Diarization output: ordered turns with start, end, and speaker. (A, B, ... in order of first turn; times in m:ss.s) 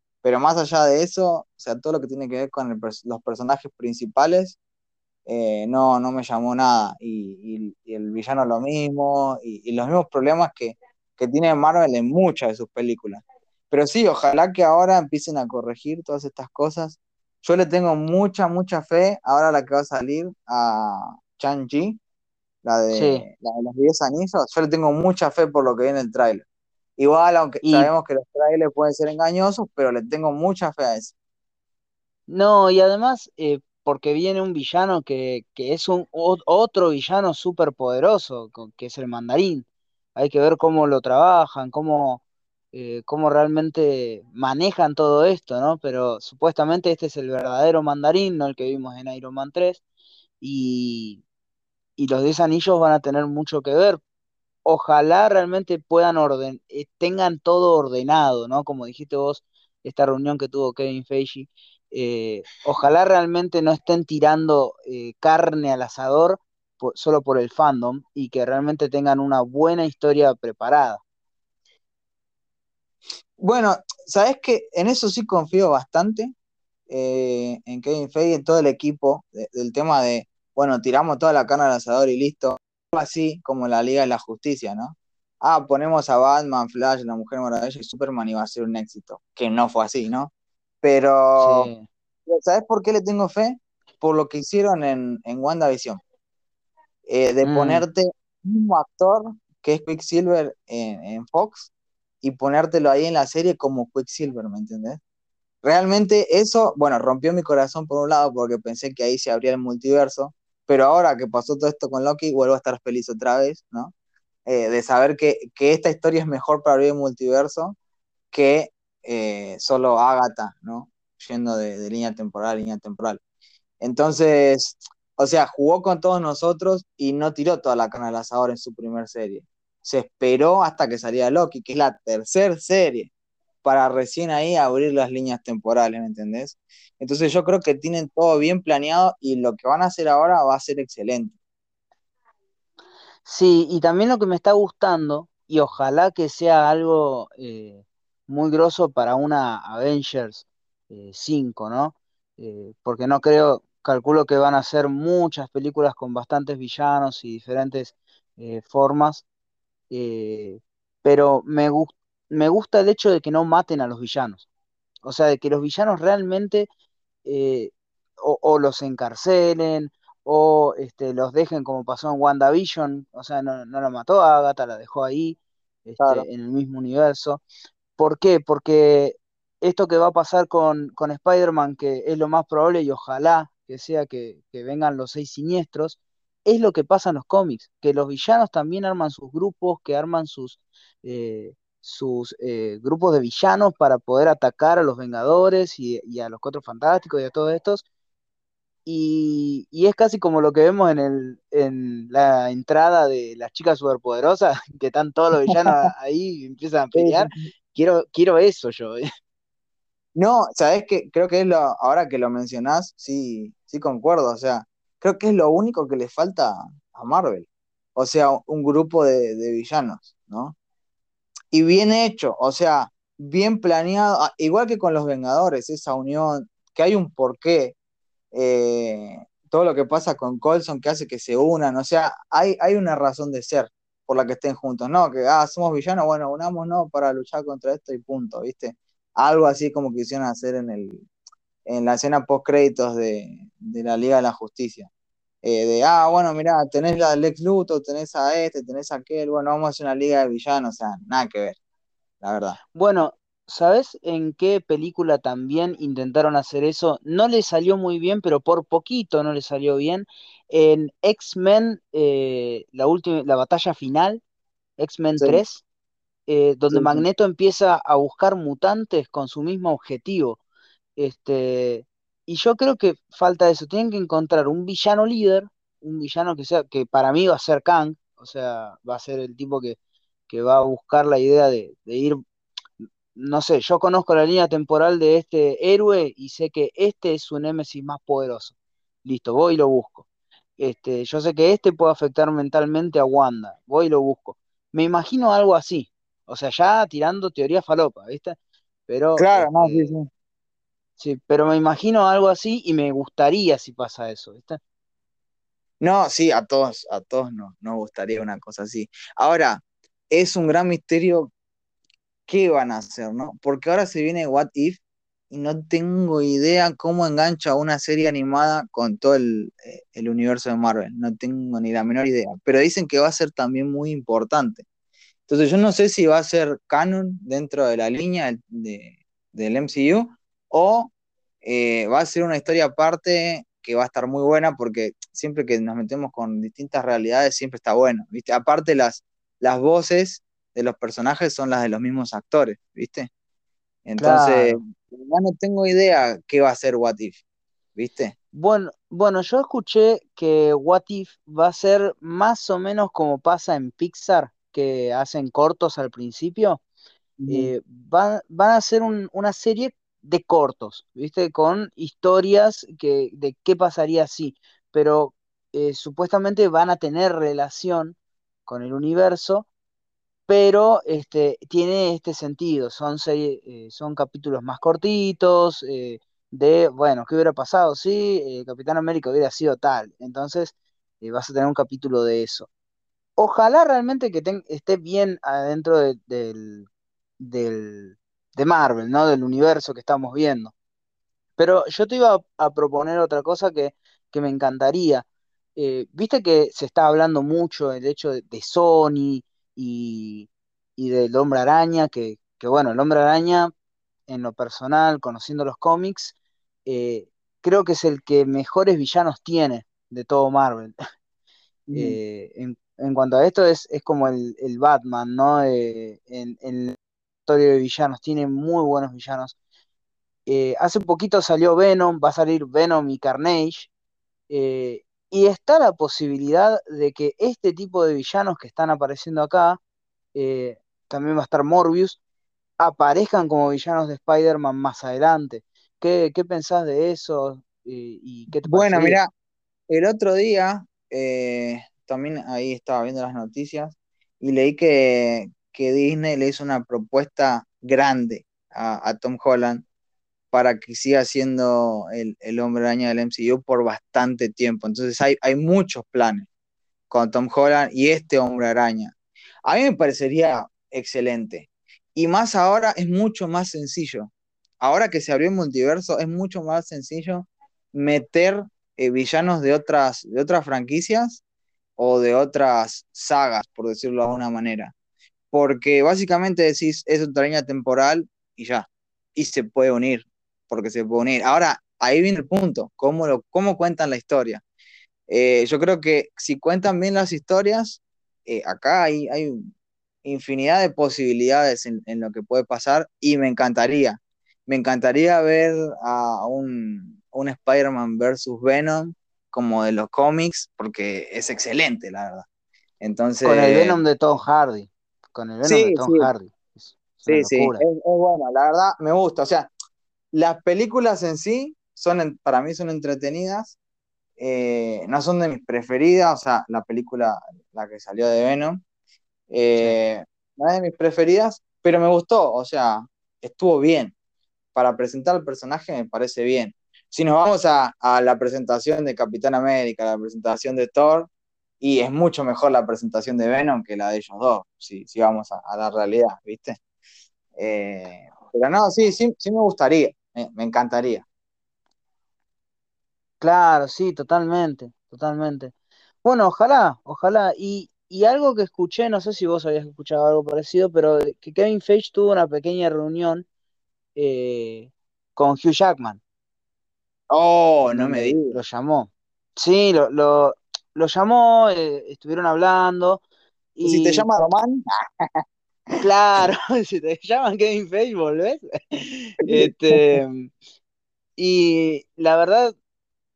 0:00.2-0:04.6 A
0:05.3-0:22.0 A
0:22.6-0:26.4 A
0:22.9-0:23.2 B
0:27.0-0:31.1 A
0:27.6-0:27.9 B
0:32.3-0:42.2 B
0:42.7-0:49.8 B
0:50.4-0:51.2 B
0:52.0-0:54.0 B
0:54.6-1:11.0 B
1:13.4-1:16.3 A
1:16.9-1:30.3 A
1:30.8-1:31.7 A
1:31.4-1:31.8 B
1:32.3-1:36.0 A
1:37.1-1:41.7 A
1:37.4-1:37.8 B
1:42.2-1:45.0 A
1:45.6-1:53.9 A
1:54.5-1:57.8 A
1:58.3-2:03.2 A
2:03.8-2:13.1 A
2:13.6-2:21.4 A
2:23.2-2:39.2 B
2:39.9-2:44.4 B
2:45.0-2:46.7 B
2:47.2-2:57.4 B
2:56.0-2:56.2 A
2:58.0-3:17.8 B
3:18.8-3:29.0 B
3:25.5-3:25.7 A
3:26.9-3:27.3 A
3:30.2-3:40.5 A
3:41.5-3:47.7 A
3:48.3-4:01.0 A
4:01.7-4:04.9 A
4:05.4-4:11.6 A
4:12.2-4:12.6 A
4:12.7-4:24.2 B
4:24.8-4:25.6 B
4:25.2-4:25.4 A
4:26.3-4:30.4 B
4:26.7-4:27.0 A
4:31.0-4:39.8 B
4:40.3-4:42.2 B
4:43.1-4:50.0 B
4:50.6-4:58.4 B
4:58.9-5:00.0 B
4:59.2-5:00.1 A
5:01.0-5:04.6 B
5:05.8-5:11.3 A
5:12.3-5:24.6 A
5:25.3-5:30.9 A
5:31.4-5:43.1 A
5:43.8-5:47.2 A
5:44.0-5:44.6 B
5:47.8-5:48.1 A
5:48.3-5:56.6 B
5:57.2-5:57.5 A
5:57.3-6:08.0 B
6:08.5-6:09.5 B
6:10.3-6:22.5 B
6:23.2-6:26.7 B
6:27.2-6:30.5 B
6:31.4-6:35.0 B
6:35.6-6:43.5 B
6:44.1-6:50.8 B
6:51.7-6:52.0 A
6:51.7-6:59.3 B
7:00.2-7:03.7 B
7:04.3-7:09.6 B
7:10.1-7:12.0 B
7:12.6-7:19.0 B
7:18.3-7:19.1 A
7:19.7-7:29.6 A
7:30.3-7:36.3 A
7:36.9-7:38.9 A
7:39.5-7:44.1 A
7:44.6-7:51.2 A
7:51.8-7:54.7 A
7:55.3-8:04.4 A
8:05.1-8:09.5 A
8:10.0-8:22.2 A
8:22.8-8:23.8 A
8:23.2-8:27.6 B
8:25.4-8:26.1 A
8:27.0-8:29.5 A
8:30.1-8:33.6 A
8:34.2-8:38.6 A
8:39.3-8:43.9 A
8:44.5-8:51.1 A
8:51.6-8:56.6 A
8:57.4-9:01.0 A
9:03.2-9:05.5 B
9:06.0-9:13.2 B
9:14.0-9:16.0 B
9:17.1-9:18.4 A
9:17.7-9:23.0 B
9:23.6-9:24.1 B
9:23.6-9:24.6 A
9:25.8-9:30.3 B
9:29.3-9:30.0 A
9:31.2-9:32.5 B